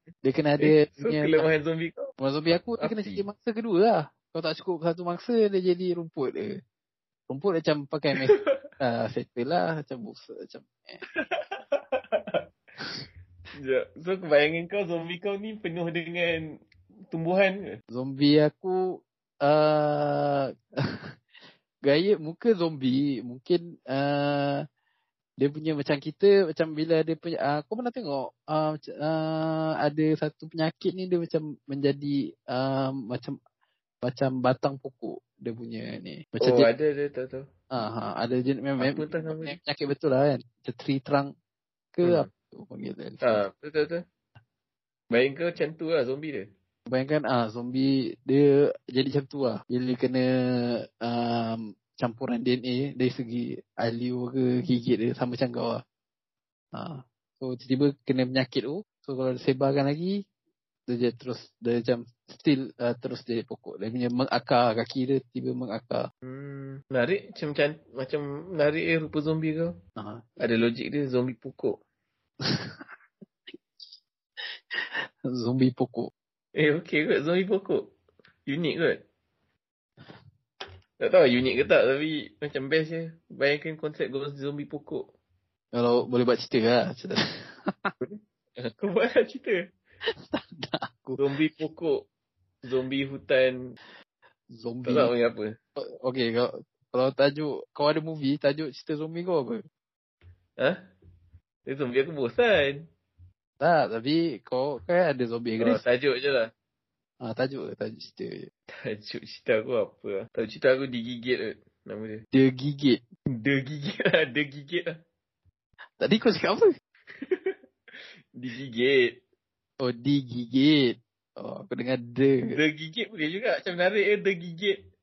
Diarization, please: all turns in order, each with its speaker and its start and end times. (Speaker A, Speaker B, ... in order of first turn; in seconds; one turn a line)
Speaker A: 0.2-1.4
Speaker B: 0.6-2.1
Speaker A: 2.2-6.6
Speaker B: 2.8-3.2
Speaker A: 7.3-11.0
Speaker B: 8.2-8.6
Speaker B: 11.1-12.4
Speaker B: 13.5-16.6
Speaker B: 17.1-17.8
Speaker A: 17.9-21.1
Speaker A: 21.8-24.6
Speaker A: 25.4-33.4
Speaker A: 34.0-36.7
Speaker B: 36.4-37.5
Speaker A: 37.7-41.3
Speaker B: 38.8-39.6
Speaker A: 41.9-43.4
Speaker B: 42.0-42.3
Speaker B: 43.2-44.0
Speaker B: 45.1-46.5
Speaker A: 46.9-55.8
Speaker A: 56.7-60.2
Speaker A: 60.9-66.1
Speaker B: 66.2-69.7
Speaker A: 70.0-70.3
Speaker B: 70.4-71.8
Speaker A: 72.4-72.8
Speaker A: 74.7-76.1
Speaker B: 76.5-77.9
Speaker B: 78.5-79.0
Speaker B: 81.0-85.1
Speaker A: 85.7-87.9
Speaker B: 88.0-89.6
Speaker A: 90.2-91.2
Speaker B: 91.2-92.1
Speaker B: 92.6-93.8
Speaker A: 94.5-95.1
Speaker B: 94.8-95.6
Speaker A: 95.8-99.6
Speaker B: 100.6-100.9
Speaker B: 101.7-102.9
Speaker A: 103.6-105.8
Speaker B: 105.6-106.5
Speaker A: 107.2-108.5
Speaker B: 108.7-112.2
Speaker A: 112.3-113.0
Speaker B: 113.3-115.0
Speaker A: 116.0-116.7
Speaker B: 117.2-117.5
Speaker B: 118.3-119.2
Speaker A: 119.8-122.6
Speaker B: 122.5-124.8